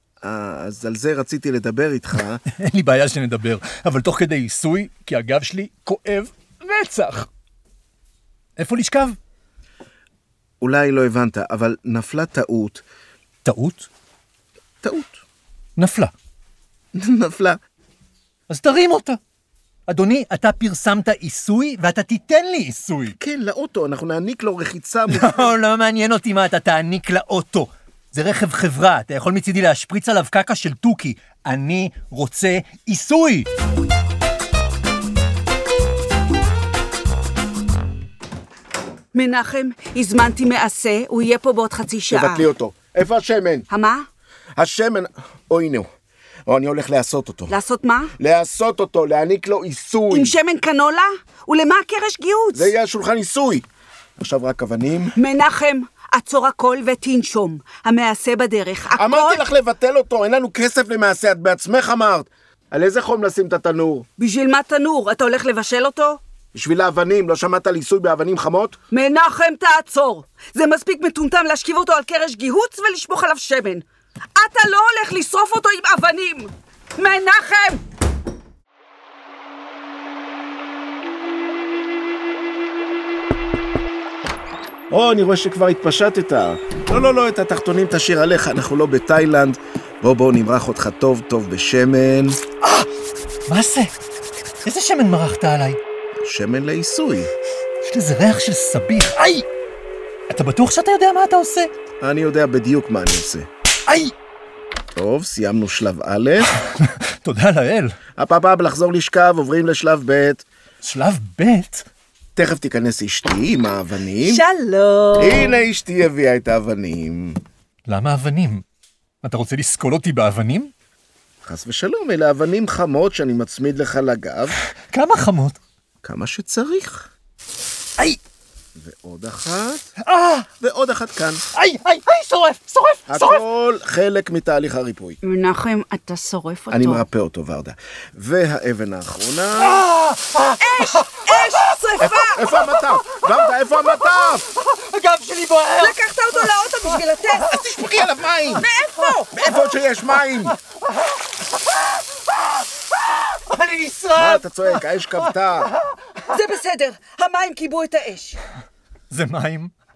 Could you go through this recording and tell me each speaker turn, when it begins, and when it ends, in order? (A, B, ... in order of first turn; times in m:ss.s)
0:00.2-0:02.4 A
0:02.5-0:07.3 B
0:08.6-0:09.2 B
0:10.6-0:12.8 A
0:13.4-0:13.9 B
0:14.8-0:15.2 A
0:15.8-0:16.1 B
0:17.0-0:17.6 A
0:18.5-0:19.2 B
0:19.9-0:23.2 B
0:23.2-0:25.5 A
0:25.1-0:33.5 B
0:39.1-0:42.5 C
0:42.1-0:43.7 A
0:43.7-0:44.1 C
0:44.6-0:45.9 A
0:46.5-0:47.6 A
0:47.5-0:48.1 C
0:48.2-0:50.4 A
0:50.1-0:52.7 C
0:52.5-0:53.6 A
0:54.2-0:55.2 A
0:55.2-0:59.4 C
0:58.9-1:04.1 A
1:04.2-1:06.2 C
1:06.5-1:08.8 A
1:08.9-1:13.8 C
1:14.4-1:17.8 C
1:24.9-1:32.4 A
1:32.6-1:32.9 B
1:33.5-1:33.9 B
1:34.6-1:35.8 B
1:36.2-1:37.3 A
1:37.8-1:39.5 B
1:40.3-1:41.7 B
1:42.0-1:43.5 A
1:43.9-1:44.1 B
1:45.0-1:46.5 A
1:46.5-1:48.0 B
1:48.2-1:50.4 A
1:50.8-1:51.9 B
1:52.4-1:54.4 A
1:54.2-1:55.6 C
1:55.2-1:57.4 A
1:57.9-1:58.6 B
1:59.2-2:00.7 B
2:01.4-2:04.6 A
2:04.9-2:05.6 B
2:06.0-2:07.1 A
2:08.8-2:09.9 A
2:10.0-2:10.5 B
2:10.6-2:11.4 A
2:11.5-2:13.4 B
2:13.1-2:15.2 A
2:15.2-2:17.0 C
2:16.7-2:19.9 A
2:19.6-2:21.4 B
2:20.6-2:22.5 C
2:22.0-2:24.5 A
2:23.5-2:26.5 B
2:25.8-2:27.5 C
2:27.4-2:28.7 A
2:28.6-2:29.3 C
2:29.3-2:30.6 A
2:33.1-2:35.8 B
2:34.2-2:35.7 A
2:36.3-2:38.4 C
2:39.1-2:39.7 B